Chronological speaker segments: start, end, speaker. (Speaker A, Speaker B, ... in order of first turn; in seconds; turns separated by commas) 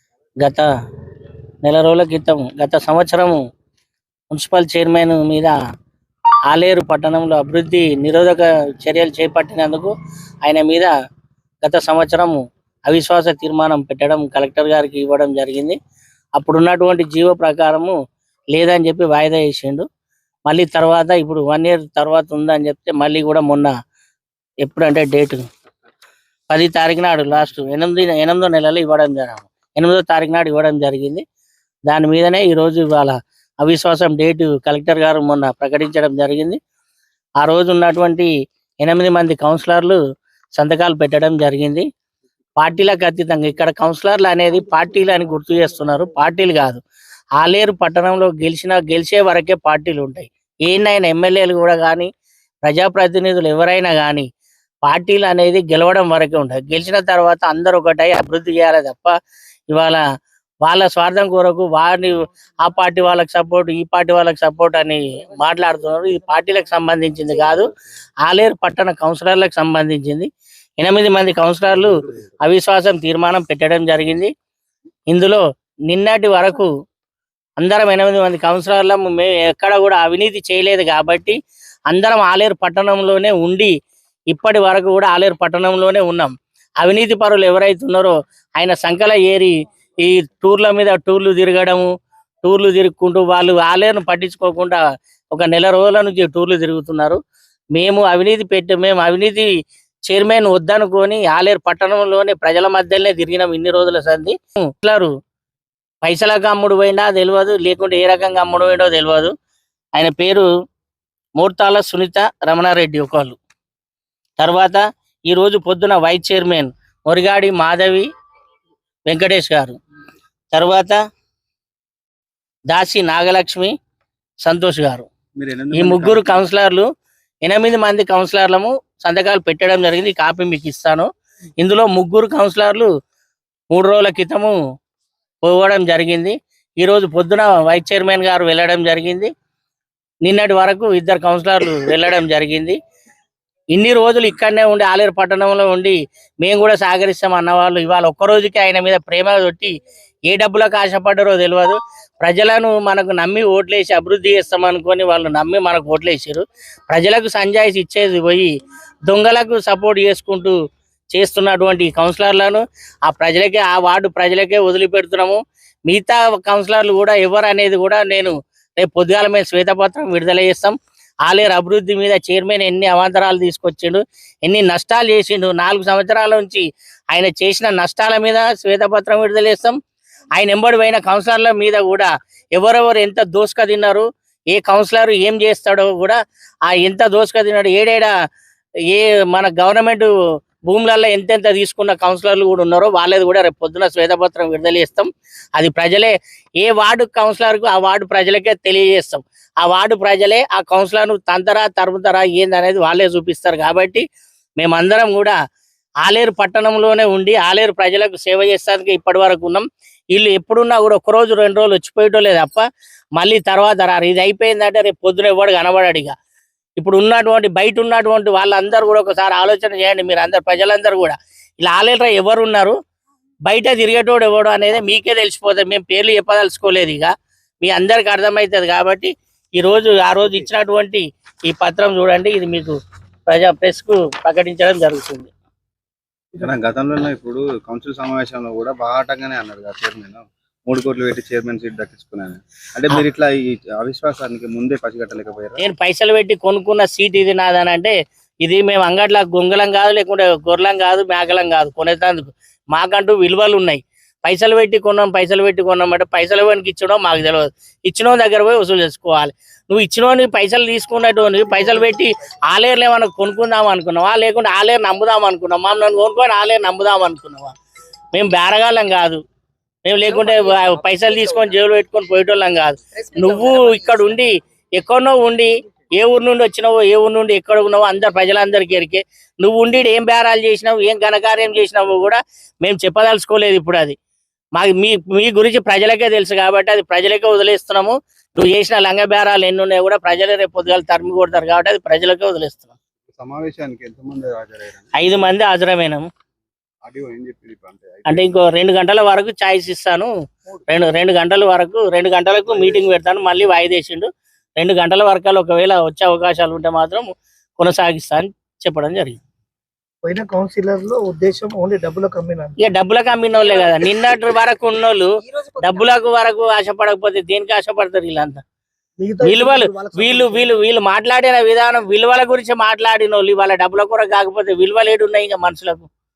Speaker A: 0.4-0.7, Speaker A: 1.6-3.4, Speaker A: 4.3-5.6, Speaker A: 6.5-10.9, Speaker A: 11.6-15.8, Speaker A: 16.4-17.9, Speaker A: 18.5-19.9, Speaker A: 20.5-23.7, Speaker A: 24.6-25.5, Speaker A: 26.5-31.2, Speaker A: 31.9-36.6, Speaker A: 37.4-38.3, Speaker A: 38.8-40.0, Speaker A: 40.6-41.9, Speaker A: 42.6-46.8, Speaker A: 47.4-52.1, Speaker A: 52.6-54.3, Speaker A: 54.9-59.1, Speaker A: 59.7-60.0, Speaker A: 60.6-67.7, Speaker A: 68.2-70.3, Speaker A: 70.8-74.3, Speaker A: 75.1-76.7, Speaker A: 77.6-81.4, Speaker A: 81.9-83.7, Speaker A: 84.3-91.9, Speaker A: 92.4-97.2, Speaker A: 97.7-99.5, Speaker A: 100.1-105.1, Speaker A: 106.0-109.3, Speaker A: 110.0-110.5, Speaker A: 111.4-113.4, Speaker A: 114.4-118.1, Speaker A: 119.1-119.8, Speaker A: 120.5-121.0, Speaker A: 122.7-123.7, Speaker A: 124.4-125.1, Speaker B: 125.4-126.5, Speaker A: 125.7-126.9, Speaker A: 127.4-131.1, Speaker A: 131.6-132.9, Speaker A: 133.7-134.6, Speaker A: 135.4-139.3, Speaker A: 140.2-142.8, Speaker A: 143.7-149.7, Speaker A: 150.3-158.5, Speaker A: 159.1-160.6, Speaker A: 161.1-179.8, Speaker A: 180.3-188.1, Speaker A: 188.9-190.1, Speaker A: 190.7-204.0, Speaker A: 204.6-205.4, Speaker A: 206.0-212.6, Speaker A: 213.2-216.1, Speaker A: 216.8-222.8, Speaker A: 223.5-235.3, Speaker B: 236.3-245.6, Speaker A: 245.6-267.5, Speaker A: 268.1-269.2, Speaker A: 269.8-283.9, Speaker A: 284.6-292.7, Speaker B: 293.2-295.3, Speaker A: 294.9-296.1, Speaker B: 296.8-298.4, Speaker A: 298.1-300.1, Speaker A: 300.7-309.2, Speaker C: 310.0-312.6, Speaker A: 312.6-318.4, Speaker C: 319.0-320.5, Speaker A: 319.2-325.9